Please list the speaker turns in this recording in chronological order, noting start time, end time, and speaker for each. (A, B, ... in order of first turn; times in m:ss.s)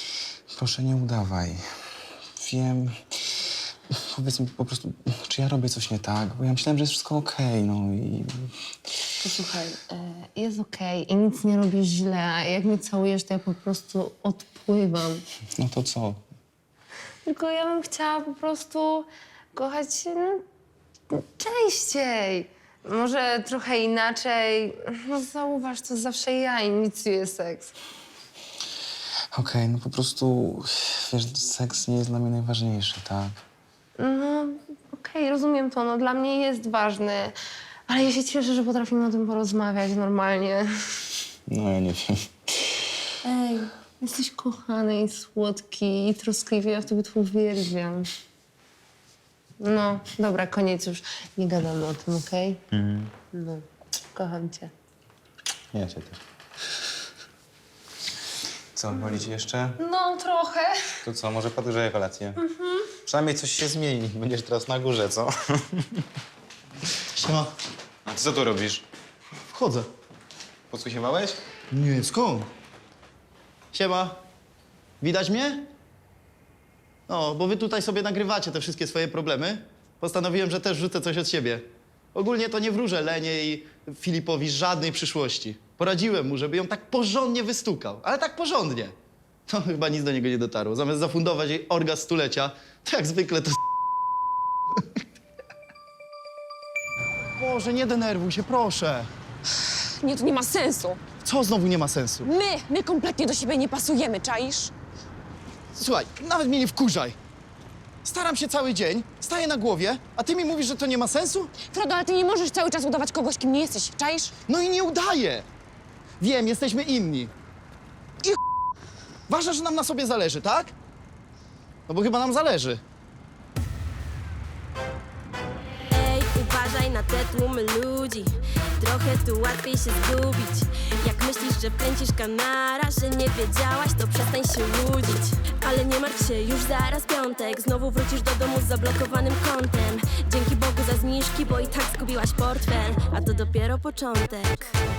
0:00.5-0:01.6 A
0:02.4-0:02.9 A
0:04.1-0:08.5 A
0:09.2-0:15.2 B
0:15.6-0:16.2 A
0:17.2-0:20.4 B
0:21.1-0:27.7 B
0:29.3-0:33.4 A
0:34.0-0:37.3 B
0:37.9-0:40.7 B
0:41.5-0:42.1 A
0:43.2-0:48.0 B
0:49.6-0:52.6 B
0:52.7-0:53.1 A
0:53.3-0:53.6 B
0:54.1-0:54.7 B
0:55.7-0:56.2 A
0:58.7-0:59.8 A
0:59.8-1:00.7 B
1:01.0-1:02.4 A
1:03.0-1:06.0 A
1:07.1-1:07.5 C
1:08.0-1:08.8 A
1:09.5-1:09.9 C
1:10.7-1:11.4 A
1:11.7-1:12.5 C
1:13.7-1:14.2 C
1:15.0-1:15.7 C
1:17.1-1:28.9 C
1:29.5-1:33.6 C
1:37.4-1:39.1 C
1:40.0-1:41.0 D
1:41.2-1:42.3 C
1:42.3-1:44.7 D
1:45.8-1:47.2 C
1:48.0-1:51.5 C
1:52.0-1:53.1 D
1:54.5-1:55.4 C
1:56.2-1:57.3 C
1:59.3-2:00.7 C
2:01.9-2:02.8 C
2:05.9-2:24.7 E